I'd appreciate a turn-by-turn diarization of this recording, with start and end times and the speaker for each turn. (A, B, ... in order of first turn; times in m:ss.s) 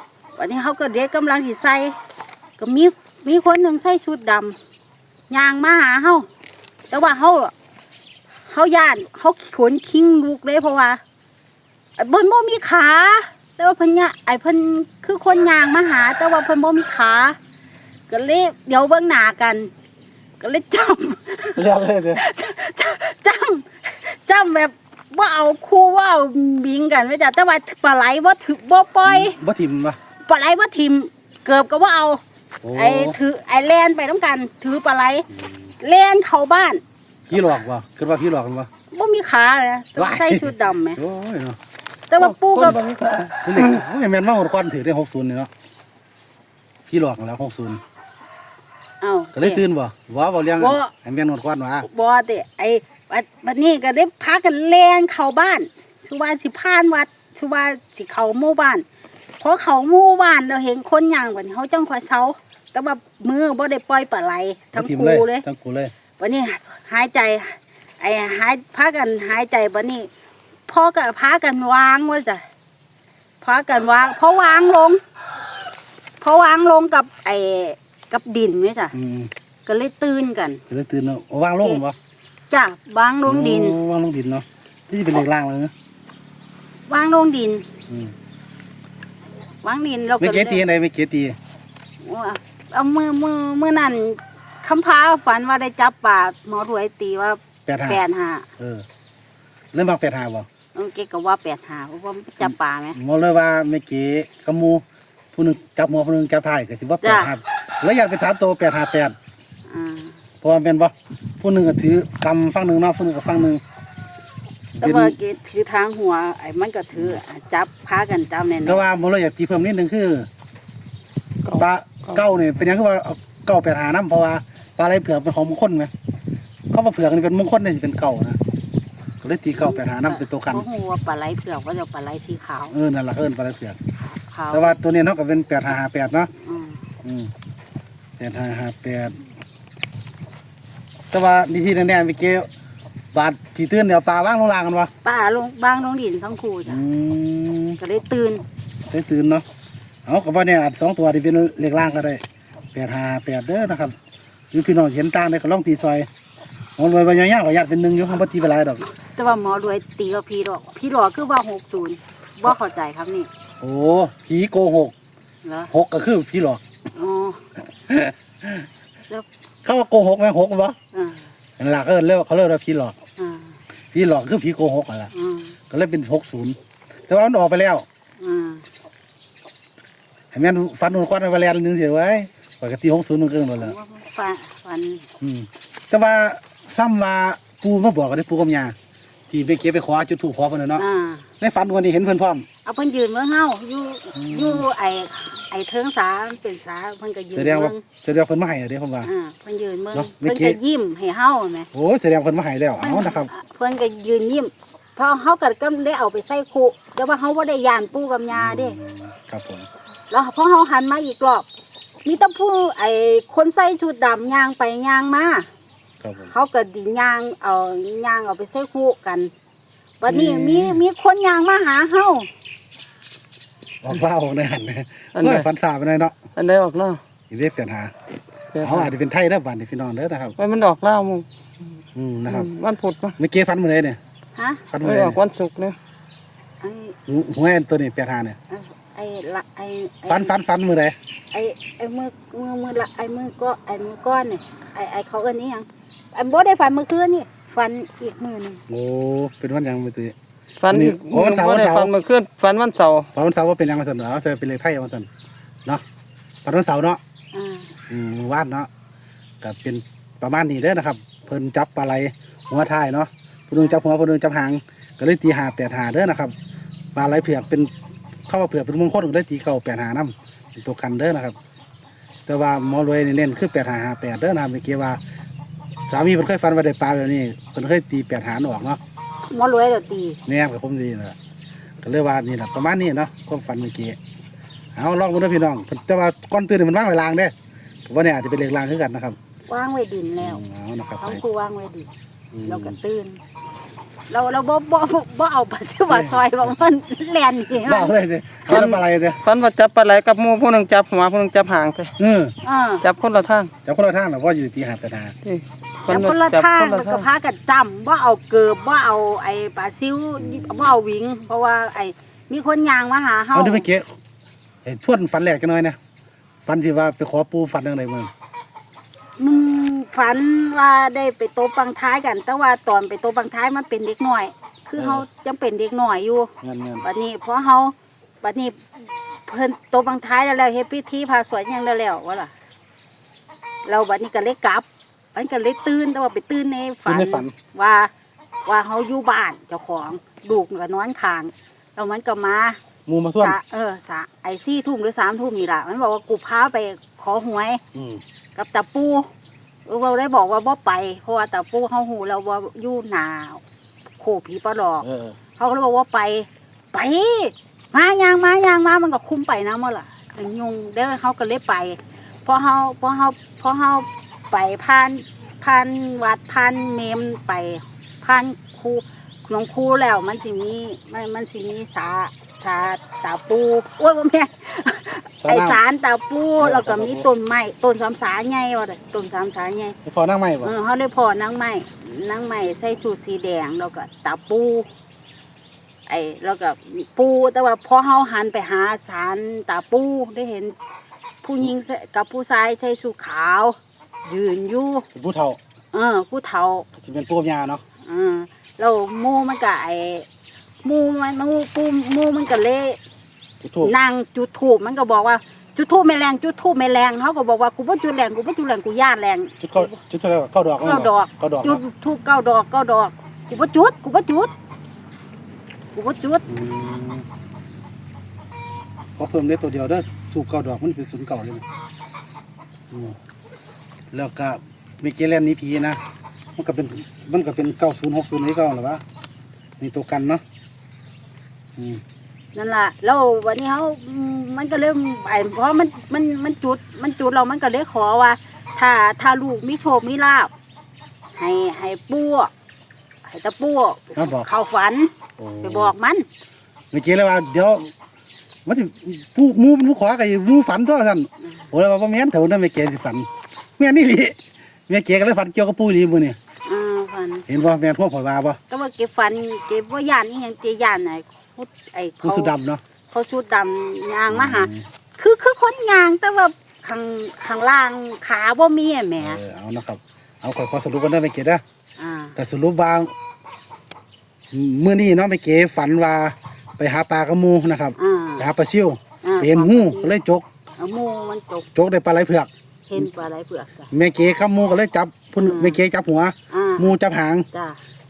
0:00.4-0:02.0 A
0:02.6-0:04.6 A
0:05.3-0:06.3 A
0:06.9-0:07.5 A
0:08.5-0:11.0 A
0:12.0-0:17.4 A
0:18.1-0:19.7 A
0:20.4-0:29.4 A
0:21.5-0:22.2 B
0:29.0-0:30.0 B
0:30.2-0:32.2 A
0:32.6-0:33.2 B
0:32.7-0:35.2 A
0:35.8-0:36.8 A
0:37.3-0:38.7 B
0:38.9-0:41.0 A
0:40.0-0:41.6 B
0:42.1-0:42.8 A
0:42.2-0:43.8 C
0:43.4-0:45.5 B
0:46.9-0:47.8 B
0:49.0-0:49.6 A
0:49.3-0:51.9 B
0:50.6-0:50.9 A
0:51.8-0:58.8 A
0:59.4-1:05.4 A
1:04.7-1:05.9 B
1:06.2-1:10.1 A
1:10.7-1:12.4 A
1:13.4-1:15.0 A
1:16.2-1:18.9 A
1:18.9-1:19.3 B
1:19.6-1:20.6 A
1:20.7-1:22.0 B
1:22.5-1:23.8 A
1:23.2-1:25.7 B
1:26.9-1:27.6 A
1:29.6-1:30.6 A
1:30.2-1:31.4 B
1:32.0-1:38.5 A
1:37.6-1:38.0 B
1:38.6-1:38.8 B
1:39.7-1:40.5 B
1:40.7-1:43.0 A
1:42.4-1:44.8 B
1:45.3-1:49.2 B
1:47.0-1:47.3 A
1:49.7-1:50.2 A
1:50.4-1:53.6 B
1:54.8-1:55.2 B
1:54.8-1:58.8 A
1:58.6-2:00.3 B
2:01.4-2:02.2 C
2:01.6-2:05.9 B
2:06.7-2:08.4 B
2:09.2-2:10.6 B
2:09.5-2:12.8 A
2:12.7-2:13.8 B
2:14.0-2:14.8 A
2:14.5-2:16.3 B
2:16.3-2:16.8 A
2:17.0-2:17.3 B
2:18.2-2:19.2 B
2:21.1-2:22.5 B
2:23.1-2:24.9 B
2:25.0-2:26.8 A
2:26.7-2:27.8 B
2:27.8-2:28.4 A
2:28.8-2:29.4 B
2:30.0-2:32.2 B
2:32.7-2:34.0 B
2:34.5-2:36.1 B
2:36.8-2:38.9 B
2:39.1-2:43.3 A
2:43.6-2:44.9 B
2:45.4-2:45.7 A
2:45.7-2:46.6 B
2:46.9-2:47.4 A
2:47.9-2:48.6 B
2:49.6-2:50.8 B
2:50.9-2:51.3 A
2:51.6-2:52.9 B
2:53.2-2:53.6 A
2:53.9-2:55.1 B
2:55.1-2:55.6 A
2:55.7-2:57.8 B
2:58.2-2:58.6 A
3:00.3-3:03.7 B
3:03.6-3:05.0 A
3:05.2-3:08.8 B
3:09.3-3:10.8 B
3:10.8-3:11.2 A
3:11.4-3:12.4 B
3:12.6-3:17.8 A
3:14.1-3:14.7 B
3:17.4-3:19.1 B
3:19.0-3:21.7 A
3:19.9-3:20.6 B
3:21.7-3:23.3 B
3:22.8-3:28.8 A
3:28.3-3:29.7 B
3:30.1-3:31.5 A
3:32.0-3:35.5 A
3:36.0-3:36.3 B
3:36.3-3:39.3 A
3:40.0-3:42.3 A
3:40.1-3:40.8 B
3:43.8-3:46.1 B
3:45.1-3:45.5 C
3:46.4-3:47.0 C
3:47.3-3:47.9 B
3:48.5-3:48.9 C
3:48.6-3:50.4 B
3:50.4-3:51.2 C
3:51.9-3:52.5 B
3:52.3-3:53.2 C
3:53.2-3:54.0 B
3:54.4-3:54.7 A
3:54.7-3:55.2 B
3:54.8-3:55.8 C
3:56.6-3:57.0 A
3:57.1-3:58.4 B
3:58.5-4:00.3 A
4:00.1-4:01.0 B
4:01.3-4:08.6 A
4:08.7-4:10.1 B
4:10.6-4:13.1 C
4:10.7-4:11.9 B
4:13.1-4:15.1 B
4:16.4-4:17.0 B
4:17.3-4:17.7 A
4:17.9-4:18.7 B
4:19.4-4:26.3 B
4:26.9-4:27.7 B
4:28.3-4:31.4 B
4:32.2-4:35.0 B
4:35.9-4:38.8 B
4:39.3-4:40.2 A
4:40.2-4:41.2 B
4:41.8-4:44.0 B
4:44.7-4:47.3 B
4:47.8-4:49.2 B
4:49.5-4:50.4 A
4:50.2-4:51.2 B
4:51.0-4:51.9 A
4:52.3-4:52.8 B
4:52.4-4:53.2 A
4:54.1-4:57.9 A
4:55.9-4:56.3 B
4:57.6-4:59.2 B
4:58.5-5:01.9 C
5:02.0-5:02.3 B
5:02.4-5:02.8 A
5:02.8-5:03.5 C
5:03.6-5:05.1 B
5:05.2-5:07.0 C
5:05.8-5:13.7 A
5:13.3-5:13.9 B
5:14.6-5:15.8 B
5:16.4-5:18.1 B
5:19.2-5:32.3 A
5:24.8-5:25.0 B
5:26.4-5:26.8 B
5:33.6-5:37.9 A
5:36.8-5:37.3 B
5:38.4-5:42.6 A
5:42.8-5:43.4 B
5:43.2-5:47.6 A
5:47.7-5:48.0 B
5:48.4-5:49.1 A
5:49.6-5:53.4 A
5:54.0-6:19.8 A
5:54.8-5:55.2 B
6:15.2-6:15.6 B
6:16.4-6:17.1 B
6:19.8-6:20.5 B
6:20.4-6:24.7 A
6:25.9-6:30.5 A
6:31.2-6:34.9 A
6:34.9-6:35.4 B
6:35.7-6:36.7 A
6:36.8-6:37.6 B
6:37.8-6:40.1 A
6:40.6-6:42.8 A
6:43.4-6:43.7 B
6:43.6-6:49.7 A
6:49.4-6:51.6 B
6:50.6-6:54.3 A
6:55.7-6:56.3 A
6:56.3-6:57.0 B
6:59.0-7:01.4 B
7:02.7-7:03.0 B
7:03.9-7:05.8 B
7:06.4-7:08.8 B
7:09.6-7:10.2 B
7:11.6-7:11.8 B
7:12.3-7:20.3 A
7:21.2-7:22.3 A
7:23.0-7:24.9 A
7:24.0-7:24.3 B
7:25.2-7:25.7 B
7:25.4-7:26.0 A
7:26.7-7:27.7 B
7:28.4-7:36.2 B
7:36.4-7:37.2 A
7:37.3-7:38.4 B
7:38.5-7:42.3 A
7:42.0-7:42.6 B
7:42.9-7:49.2 A
7:44.1-7:44.6 B
7:49.0-7:51.4 B
7:51.8-7:52.1 A
7:52.2-7:52.9 B
7:54.3-8:00.2 B
7:57.8-7:58.3 A
7:59.0-7:59.9 A
8:00.6-8:01.5 A
8:01.5-8:02.3 B
8:02.7-8:03.7 A
8:03.7-8:07.2 B
8:05.2-8:05.6 A
8:06.3-8:06.7 A
8:07.3-8:07.6 A